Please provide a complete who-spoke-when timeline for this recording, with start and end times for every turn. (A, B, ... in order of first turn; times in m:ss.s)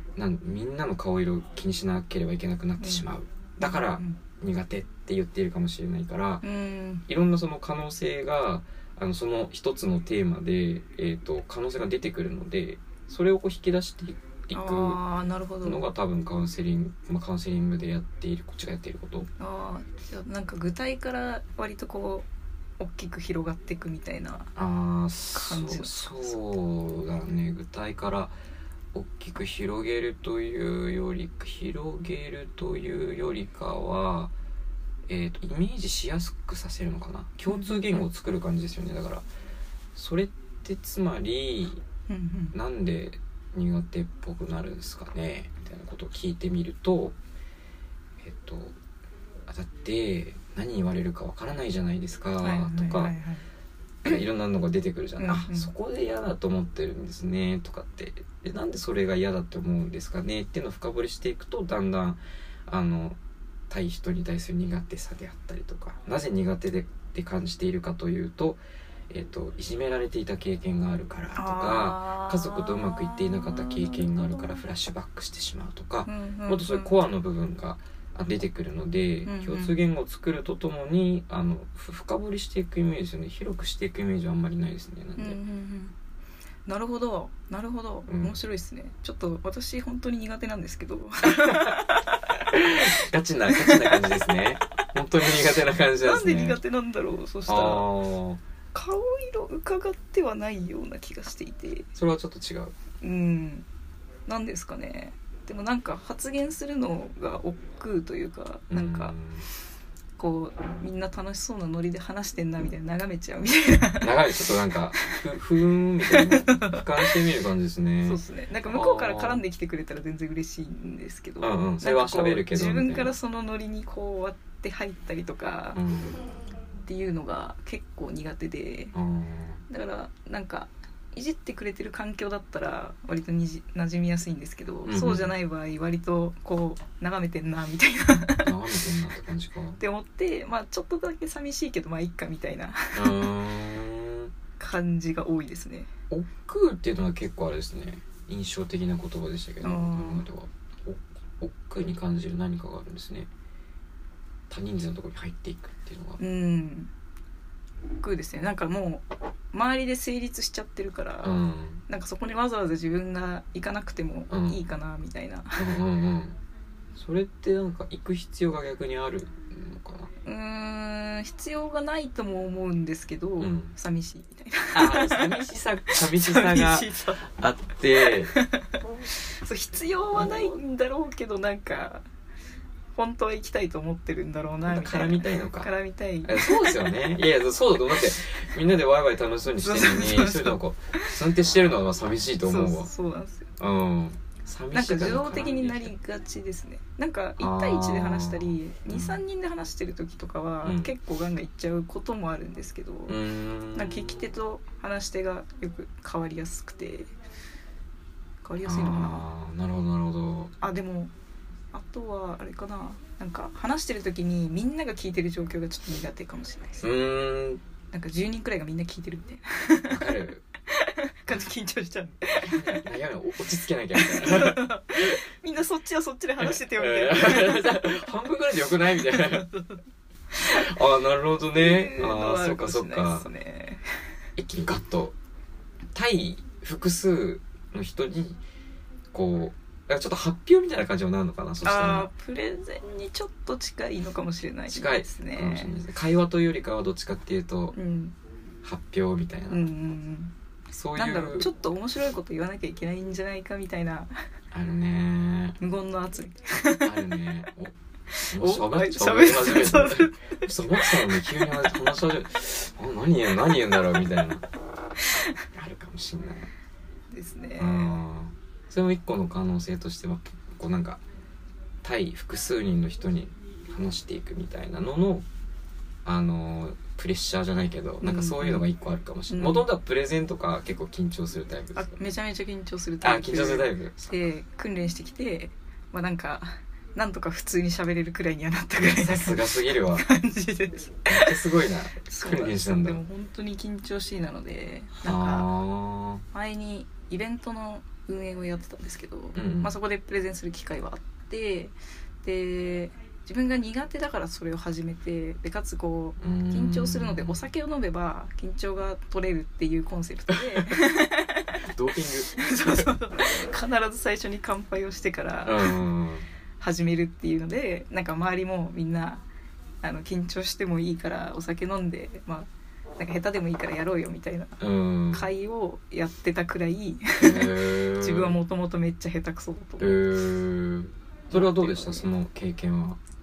0:00.2-0:06.4 A
0:02.8-0:03.1 B
0:03.6-0:04.2 B
0:06.4-0:07.0 B
0:07.1-0:15.0 A
0:14.5-0:15.8 B
0:15.6-0:19.3 A
0:19.4-0:22.3 B
0:22.8-0:24.5 B
0:24.6-0:28.4 A
0:25.4-0:26.4 B
0:28.9-0:34.3 A
0:35.1-0:39.3 A
0:37.5-0:38.0 B
0:40.0-0:41.8 A
0:42.1-0:42.5 B
0:42.5-0:47.2 A
0:48.2-0:48.8 A
0:49.5-0:53.1 A
0:52.4-0:53.4 B
0:54.0-1:03.2 A
0:55.2-0:55.7 B
1:03.7-1:25.4 A
1:11.4-1:14.5 B
1:16.1-1:17.0 B
1:19.2-1:19.8 B
1:25.2-1:25.9 B
1:26.7-1:32.9 B
1:28.1-1:28.4 A
1:31.2-1:31.8 A
1:32.5-1:36.6 A
1:33.5-1:34.0 B
1:36.0-1:37.9 B
1:37.5-1:38.4 A
1:38.7-1:41.9 B
1:42.0-1:42.8 A
1:43.0-1:43.7 B
1:44.3-1:49.2 B
1:48.7-1:49.5 A
1:50.2-1:54.4 B
1:54.0-1:59.4 A
1:56.1-1:57.2 B
1:58.0-2:05.8 B
2:01.4-2:03.1 A
2:05.7-2:06.2 A
2:06.9-2:08.9 B
2:08.9-2:09.6 A
2:09.7-2:18.5 B
2:14.9-2:15.3 A
2:18.4-2:19.8 A
2:19.8-2:23.3 B
2:22.9-2:24.3 A
2:24.6-2:25.9 B
2:26.1-2:33.3 A
2:29.6-2:30.2 B
2:34.5-2:36.2 A
2:36.2-2:36.9 B
2:38.0-2:45.7 B
2:41.2-2:41.8 A
2:44.3-2:44.6 A
2:45.6-2:46.4 A
2:47.0-2:50.1 A
2:50.2-2:55.5 B
2:53.4-2:53.7 A
2:54.7-2:59.1 A
2:56.0-2:57.2 B
2:58.0-3:02.1 B
3:00.2-3:00.5 A
3:03.0-3:06.8 B
3:04.7-3:05.7 A
3:06.2-3:12.9 A
3:09.6-3:11.1 B
3:12.4-3:13.5 B
3:13.6-3:15.9 A
3:14.7-3:23.2 B
3:17.4-3:19.2 A
3:20.6-3:20.9 A
3:23.1-3:24.3 A
3:23.7-3:27.1 B
3:28.4-3:29.2 B
3:28.6-3:30.5 A
3:30.6-3:31.1 B
3:31.7-3:36.8 B
3:36.8-3:37.6 A
3:37.9-3:40.1 B
3:39.9-3:40.4 A
3:40.7-3:42.9 B
3:42.4-3:45.2 A
3:44.0-3:48.1 B
3:46.4-3:49.5 A
3:48.8-3:49.8 B
3:50.3-3:50.6 B
3:50.4-3:53.3 A
3:51.6-3:54.1 B
3:54.4-3:55.2 A
3:55.9-3:58.4 A
3:59.1-4:02.1 A
4:01.6-4:05.7 B
4:04.7-4:07.8 A
4:07.7-4:08.2 B
4:08.6-4:09.7 A
4:09.5-4:10.3 B
4:10.7-4:11.5 A
4:11.0-4:14.1 B
4:14.5-4:15.6 A
4:15.6-4:17.0 B
4:16.8-4:17.7 A
4:18.1-4:21.5 B
4:18.3-4:24.5 A
4:25.5-4:26.5 A
4:27.1-4:28.0 B
4:27.6-4:31.0 A
4:31.8-4:35.3 A
4:36.0-4:41.9 A
4:38.0-4:38.6 B
4:39.3-4:39.7 B
4:41.8-4:51.5 B
4:43.0-4:44.1 A
4:48.8-4:50.1 A
4:51.1-4:53.0 A
4:52.1-4:55.5 B
4:55.0-4:56.2 A
4:56.3-5:11.6 B
4:59.4-4:59.7 A
5:06.2-5:07.4 A
5:11.6-5:12.9 A
5:12.4-5:15.8 B
5:15.4-5:16.2 A
5:16.6-5:19.2 B
5:19.8-5:24.6 B
5:24.6-5:25.2 A
5:25.1-5:30.0 B
5:27.2-5:28.4 A
5:29.8-5:33.0 A
5:31.3-5:32.1 B